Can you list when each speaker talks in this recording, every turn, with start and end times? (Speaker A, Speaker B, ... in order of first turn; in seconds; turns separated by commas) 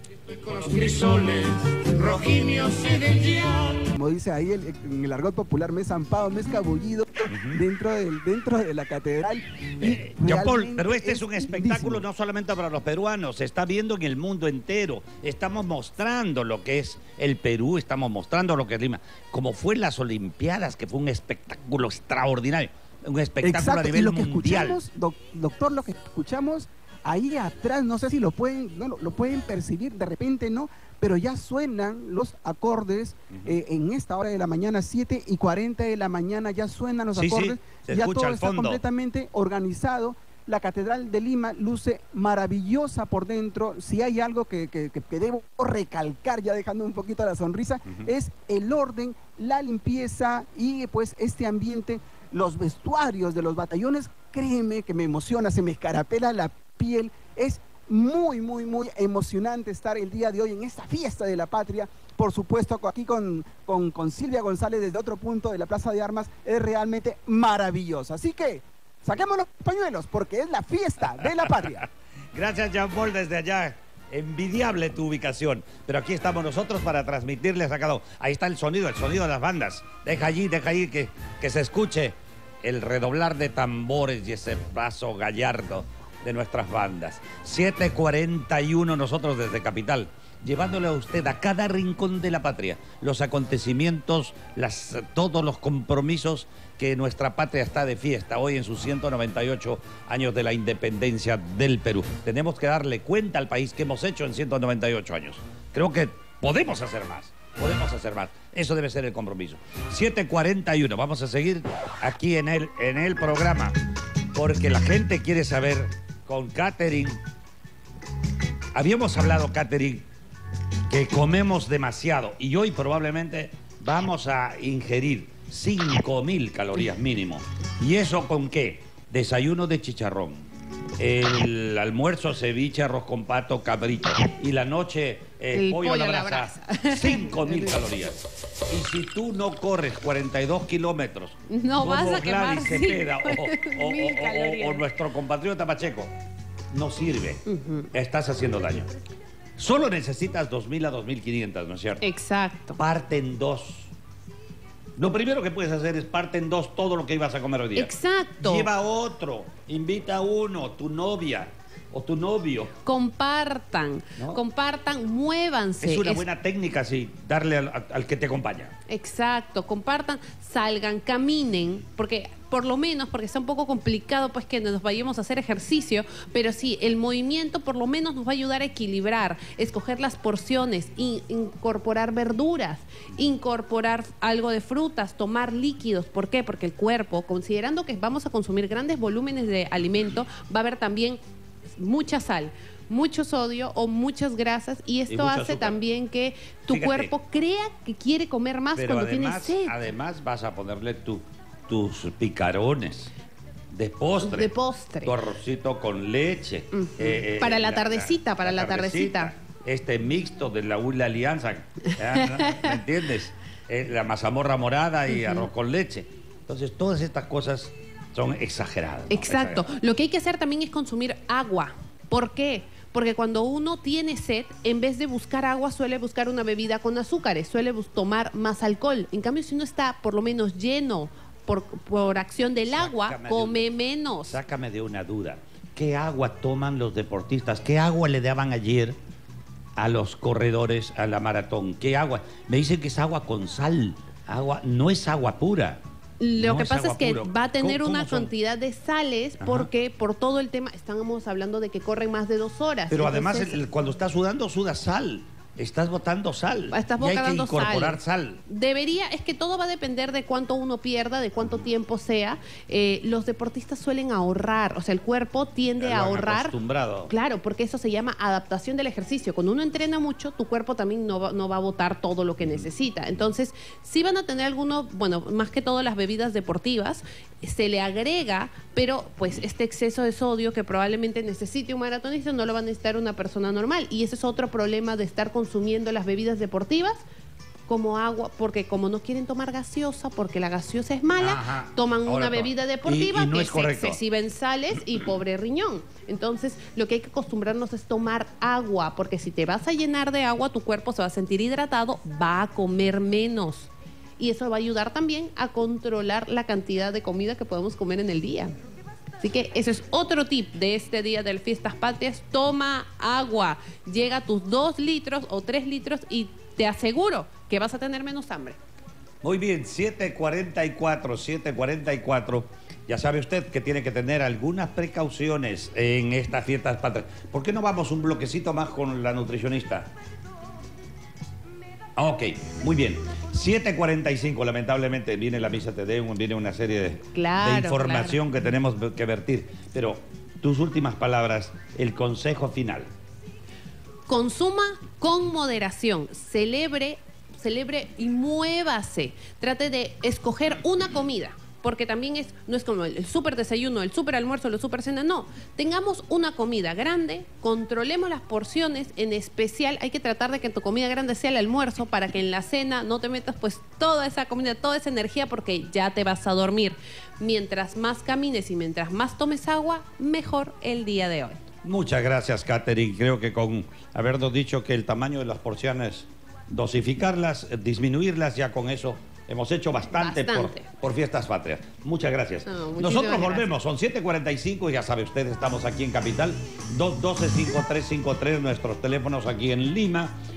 Speaker A: 0.4-3.8, Speaker B: 3.9-12.0, Speaker C: 7.3-7.6, Speaker C: 9.8-24.8, Speaker B: 23.4-71.8, Speaker C: 33.3-33.6, Speaker C: 37.1-38.8, Speaker C: 71.2-113.8, Speaker C: 114.3-117.2, Speaker C: 118.7-120.0, Speaker C: 120.9-130.5, Speaker C: 131.0-146.1, Speaker D: 135.5-137.8, Speaker D: 141.5-144.9, Speaker C: 146.7-148.9, Speaker D: 147.4-147.9, Speaker C: 149.6-152.0, Speaker D: 152.0-152.8, Speaker C: 152.8-153.9, Speaker C: 155.0-162.7, Speaker D: 157.8-158.7, Speaker D: 162.8-166.2, Speaker C: 164.2-164.4, Speaker C: 165.8-168.7, Speaker D: 168.9-191.2, Speaker D: 191.8-199.7, Speaker C: 195.1-195.8, Speaker C: 196.7-197.1, Speaker C: 198.8-203.1, Speaker C: 203.7-204.5, Speaker D: 204.2-205.1, Speaker C: 205.0-219.7, Speaker D: 206.7-209.3, Speaker D: 212.0-212.8, Speaker D: 215.1-215.5, Speaker D: 219.1-234.4, Speaker C: 232.7-233.7, Speaker C: 234.3-239.0, Speaker C: 239.8-245.8, Speaker D: 246.2-253.6, Speaker C: 246.4-248.3, Speaker C: 249.4-249.7, Speaker C: 252.9-258.4, Speaker D: 256.7-266.5, Speaker C: 265.8-267.1, Speaker D: 267.1-286.9, Speaker D: 287.7-308.5, Speaker C: 291.2-294.0, Speaker D: 309.2-318.6, Speaker C: 319.2-329.9, Speaker C: 331.9-342.9, Speaker D: 337.1-338.2, Speaker D: 344.1-371.4, Speaker C: 371.6-390.2, Speaker D: 379.9-380.7, Speaker D: 382.4-383.5